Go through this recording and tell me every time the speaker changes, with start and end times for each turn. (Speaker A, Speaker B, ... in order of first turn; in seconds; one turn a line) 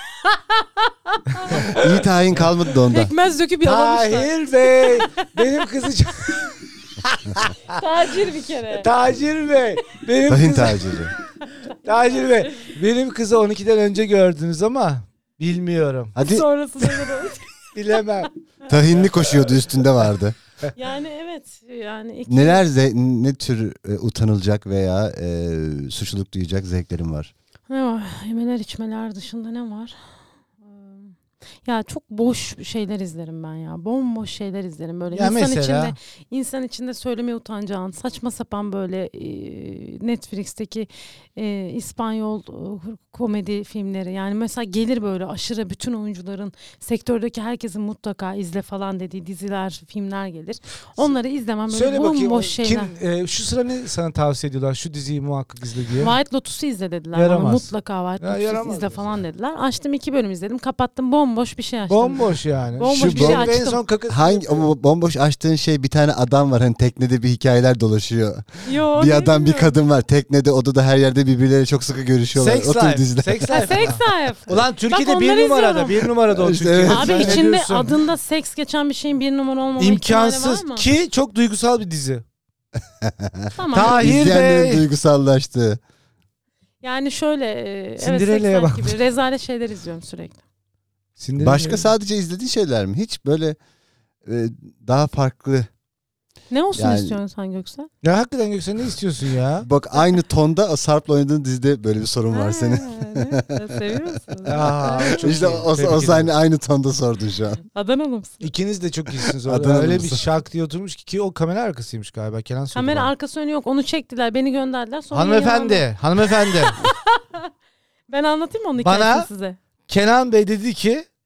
Speaker A: 0.2-1.8
Speaker B: 1.3-2.4
Speaker C: 1.5-3.1
Speaker A: 2.9-5.7
Speaker B: 3.6-7.8
Speaker A: 7.7-8.9
Speaker B: 8.7-10.9
Speaker C: 10.3-11.1
Speaker A: 11.4-12.7
Speaker B: 11.7-16.1
Speaker C: 16.1-16.4
Speaker A: 16.2-18.3
Speaker B: 17.7-18.3
Speaker C: 18.7-20.4
Speaker B: 18.9-19.6
Speaker A: 20.7-22.6
Speaker C: 22.3-27.3
Speaker A: 27.7-52.9
Speaker B: 35.1-35.9
Speaker B: 51.7-56.1
Speaker A: 56.0-63.8
Speaker B: 57.1-59.0
Speaker B: 61.9-64.7
Speaker C: 62.9-63.5
Speaker C: 64.1-73.9
Speaker A: 68.6-69.7
Speaker B: 72.3-78.0
Speaker A: 73.5-76.1
Speaker C: 76.3-77.4
Speaker A: 76.9-80.8
Speaker B: 79.8-82.2
Speaker C: 83.0-85.8
Speaker A: 83.5-84.3
Speaker B: 83.7-84.8
Speaker A: 86.8-90.4
Speaker B: 88.0-89.0
Speaker B: 91.2-91.9
Speaker C: 91.4-93.6
Speaker C: 94.2-95.7
Speaker A: 96.5-97.9
Speaker C: 96.8-97.2
Speaker B: 98.0-99.7
Speaker C: 99.6-103.9
Speaker A: 102.3-105.4
Speaker C: 104.5-107.6
Speaker B: 104.5-106.3
Speaker A: 107.7-108.5
Speaker B: 108.4-113.1
Speaker C: 109.3-110.2
Speaker A: 112.7-115.9
Speaker B: 115.1-116.8
Speaker A: 116.4-117.5
Speaker A: 118.1-119.6
Speaker B: 118.8-119.3
Speaker B: 119.9-121.0